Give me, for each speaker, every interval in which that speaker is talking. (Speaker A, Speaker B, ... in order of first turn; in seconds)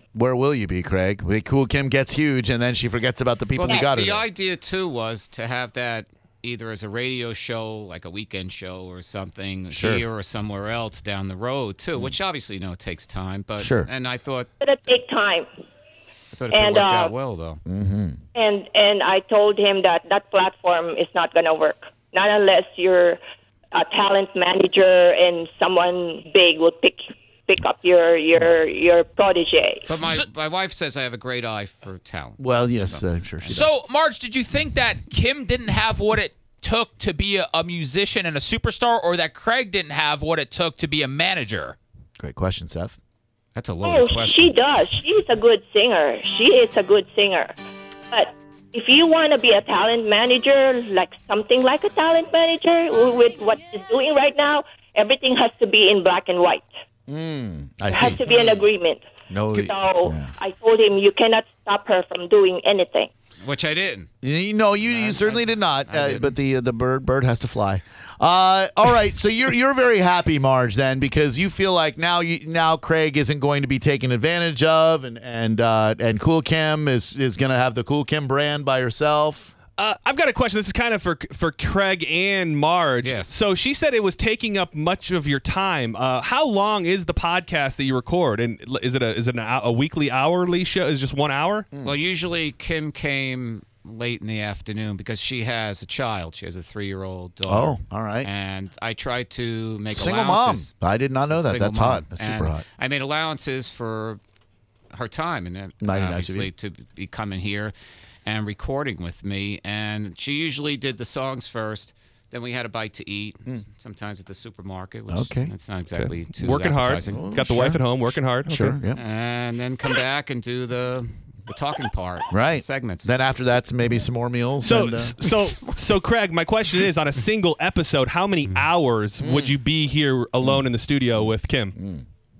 Speaker A: 0.1-4.2, 9.7-10.0, 13.6-13.9, 17.6-18.2, 32.4-33.8, 42.2-43.0, 57.1-58.2, 59.3-60.3, 64.2-79.5, 97.5-98.3, 99.9-102.6, 105.8-106.5, 115.1-115.5, 117.1-117.8, 118.4-119.0, 122.3-125.2, 129.2-129.6, 131.2-132.0
Speaker B: 3.5-14.5, 16.3-17.6, 29.9-33.0, 43.5-44.6, 58.3-58.6, 63.4-64.1, 64.8-66.3, 83.0-83.3, 91.8-100.7, 101.3-104.2, 104.9-107.7, 108.2-117.2, 118.9-123.2
Speaker C: 14.6-15.5, 16.5-17.1, 18.3-23.2, 23.7-29.9, 43.8-47.5, 48.1-56.7, 57.9-63.1
Speaker D: 33.5-41.8
Speaker E: 79.8-91.7, 115.9-118.8, 124.6-131.7